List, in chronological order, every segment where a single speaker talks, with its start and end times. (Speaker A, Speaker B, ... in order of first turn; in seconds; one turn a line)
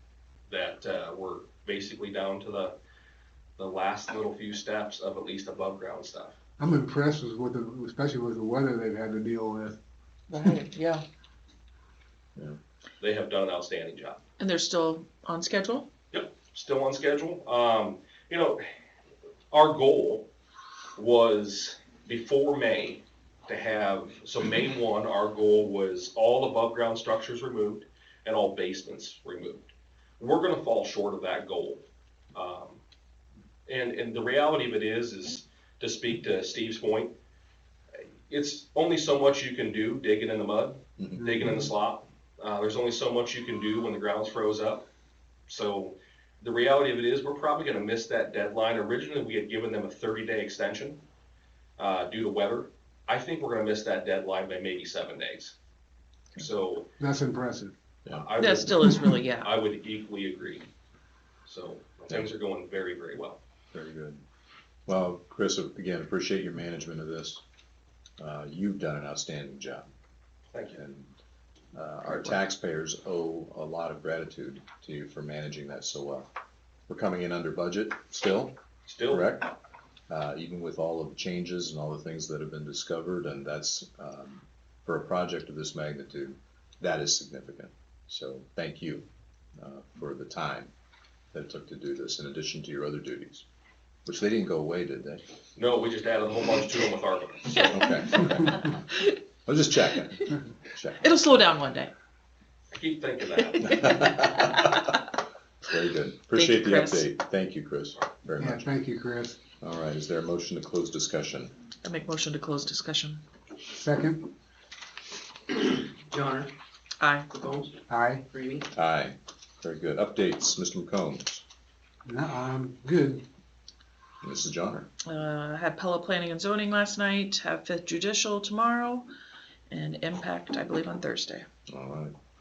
Speaker A: 0.5-2.8
Speaker A: 3.6-6.3
Speaker B: 6.6-9.8
Speaker C: 10.3-11.0
Speaker A: 13.0-14.2
Speaker C: 14.4-15.9
Speaker A: 16.1-18.6
Speaker A: 19.5-20.3
Speaker A: 21.0-29.7
Speaker A: 30.2-32.8
Speaker A: 33.7-37.1
Speaker A: 38.3-44.9
Speaker D: 41.0-41.2
Speaker B: 41.2-41.6
Speaker A: 45.5-51.0
Speaker A: 51.8-55.5
Speaker A: 56.4-56.9
Speaker B: 57.0-57.7
Speaker D: 58.0-58.3
Speaker A: 58.3-58.8
Speaker C: 58.4-59.5
Speaker A: 59.4-60.7
Speaker A: 61.5-63.4
Speaker D: 62.1-62.3
Speaker D: 63.7-64.2
Speaker D: 64.9-67.4
Speaker D: 68.2-69.9
Speaker D: 70.7-71.2
Speaker D: 71.7-76.3
Speaker D: 76.9-78.6
Speaker A: 78.9-79.2
Speaker D: 79.1-79.5
Speaker D: 80.1-90.7
Speaker D: 91.3-93.5
Speaker D: 94.0-95.2
Speaker A: 95.6-97.5
Speaker C: 97.5-99.2
Speaker D: 97.6-98.7
Speaker D: 99.5-101.2
Speaker C: 101.0-101.9
Speaker A: 102.7-103.6
Speaker D: 103.6-104.8
Speaker C: 103.6-105.0
Speaker D: 105.6-108.7
Speaker C: 106.3-107.1
Speaker B: 108.4-109.4
Speaker D: 109.6-111.5
Speaker C: 111.8-113.2
Speaker B: 113.7-114.3
Speaker E: 115.5-116.5
Speaker C: 117.0-117.3
Speaker E: 117.3-118.7
Speaker B: 117.9-118.2
Speaker D: 118.7-121.4
Speaker B: 122.0-123.2
Speaker D: 124.2-124.9
Speaker C: 125.1-129.1
Speaker C: 129.7-131.5
Speaker D: 131.7-132.2